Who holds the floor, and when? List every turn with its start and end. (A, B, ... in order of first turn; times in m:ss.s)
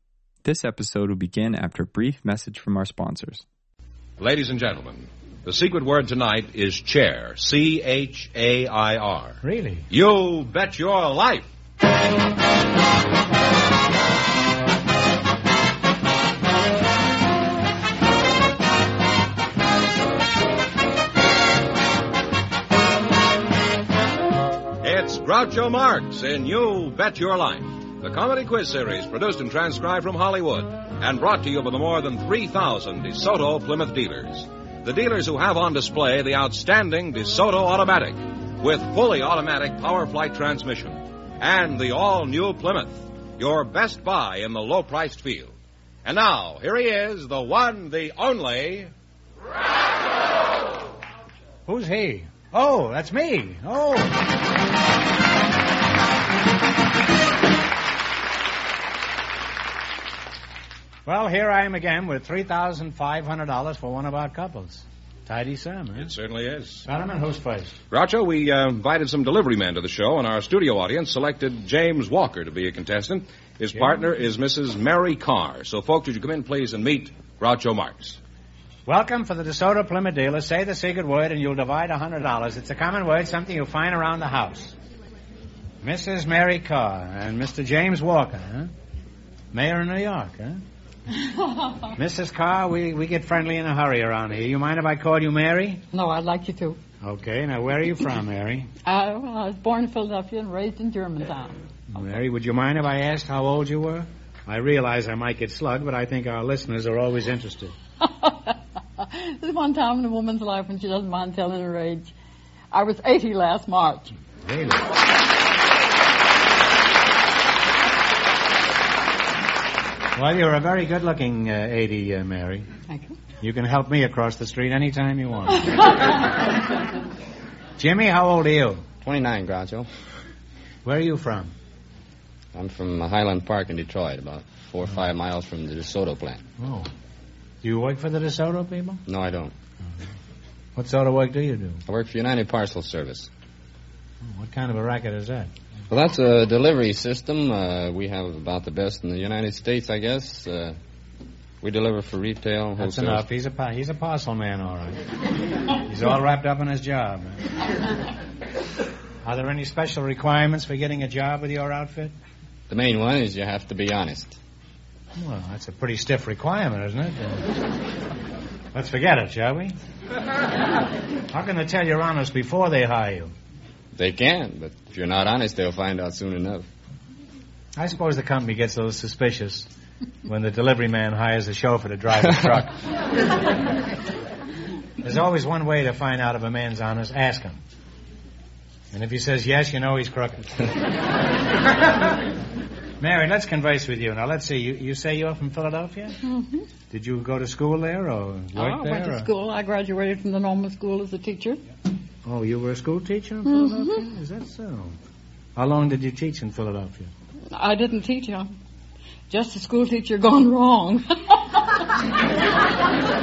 0:00.4-0:03.4 A
0:04.2-0:11.5 B
0:09.4-0:09.9 C
0:24.8-0:45.5 B
0:46.0-0:48.9 B
0:51.7-0:54.1 C
1:01.0-1:06.1 C
1:06.0-1:06.8 B
1:06.8-1:07.8 C
1:07.9-1:18.2 B
1:18.8-1:24.7 C
1:25.8-1:28.7 C
1:29.5-1:30.6 C
1:31.5-1:31.7 D
1:31.9-1:35.8 C
1:35.9-1:36.8 D
1:37.0-1:38.7 C
1:38.8-1:41.6 D
1:41.9-1:47.8 C
1:48.0-1:52.1 D
1:52.7-1:54.1 D
1:54.4-1:54.9 C
2:00.1-2:02.7 C
2:02.9-2:03.2 D
2:03.4-2:05.7 C
2:07.8-2:08.8 C
2:09.0-2:09.9 E
2:10.8-2:11.5 C
2:12.5-2:16.4 E
2:16.6-2:16.9 C
2:17.6-2:19.0 C
2:19.0-2:19.5 E
2:20.8-2:21.8 C
2:21.9-2:23.3 E
2:24.2-2:25.5 C
2:25.9-2:30.8 E
2:31.6-2:33.2 E
2:32.8-2:35.0 C
2:35.8-2:37.4 C
2:39.2-2:42.1 C
2:42.7-2:44.4 E
2:45.2-2:47.5 C
2:48.7-2:49.7 C
2:51.3-2:53.3 C
2:53.9-2:56.7 E
2:57.8-2:59.7 C
3:00.2-3:02.8 C
3:05.0-3:07.6 C
3:08.9-3:10.6 C
3:13.0-3:16.2 C
3:16.2-3:16.6 D
3:16.9-3:19.3 C
3:18.5-3:21.6 D
3:22.2-3:25.0 C
3:23.5-3:24.0 D
3:25.6-3:27.1 C
3:27.5-3:28.5 D
3:29.3-3:31.9 D